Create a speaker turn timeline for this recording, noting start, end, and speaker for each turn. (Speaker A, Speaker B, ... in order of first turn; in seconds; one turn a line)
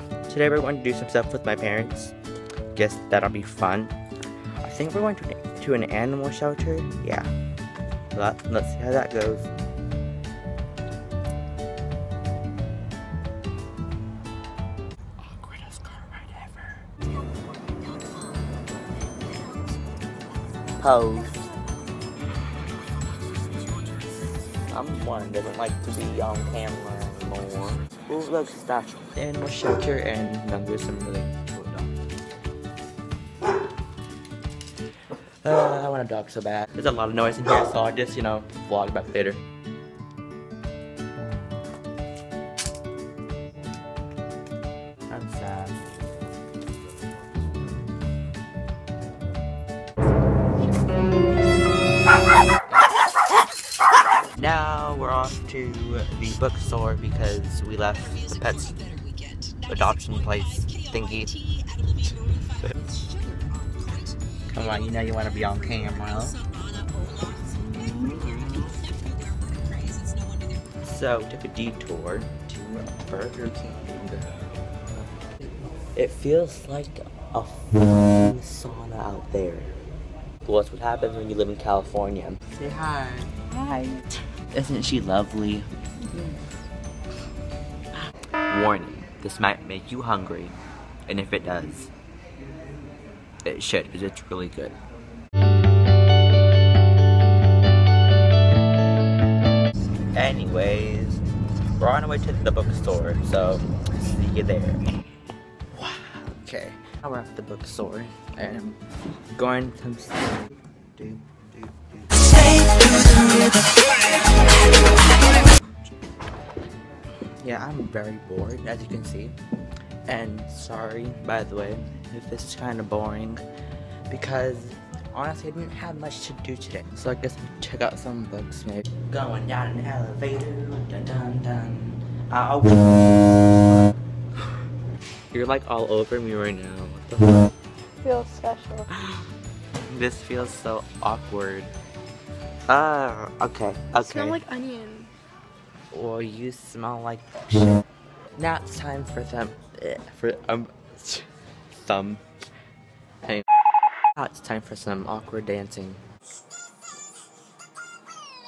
Speaker A: 0.3-2.1
Speaker A: 2.7-3.9
Speaker A: 4.6-7.3
Speaker A: 8.1-9.5
Speaker A: 15.2-16.8
Speaker A: 20.8-21.5
Speaker A: 24.7-32.0
Speaker A: 35.4-39.4
Speaker A: 45.1-45.8
Speaker A: 54.3-58.8
Speaker B: 59.0-59.5
Speaker A: 59.5-61.4
Speaker B: 62.8-63.8
Speaker A: 64.5-66.4
Speaker B: 66.7-67.2
Speaker A: 67.6-68.8
Speaker B: 69.7-70.2
Speaker A: 70.8-74.3
Speaker A: 74.9-75.3
Speaker A: 75.9-79.8
Speaker A: 80.4-86.5
Speaker A: 88.5-90.5
Speaker A: 91.1-91.9
Speaker A: 93.4-94.8
Speaker A: 100.1-101.2
Speaker A: 101.8-104.8
Speaker A: 105.7-108.8
Speaker A: 109.3-115.7
Speaker A: 117.4-119.3
Speaker A: 120.1-123.4
Speaker A: 124.1-133.5
Speaker A: 135.3-137.5
Speaker B: 138.0-138.9
Speaker A: 138.9-139.3
Speaker A: 139.9-141.7
Speaker A: 142.7-144.4
Speaker B: 144.0-145.1
Speaker A: 145.9-147.8
Speaker A: 148.4-152.2
Speaker A: 154.2-156.0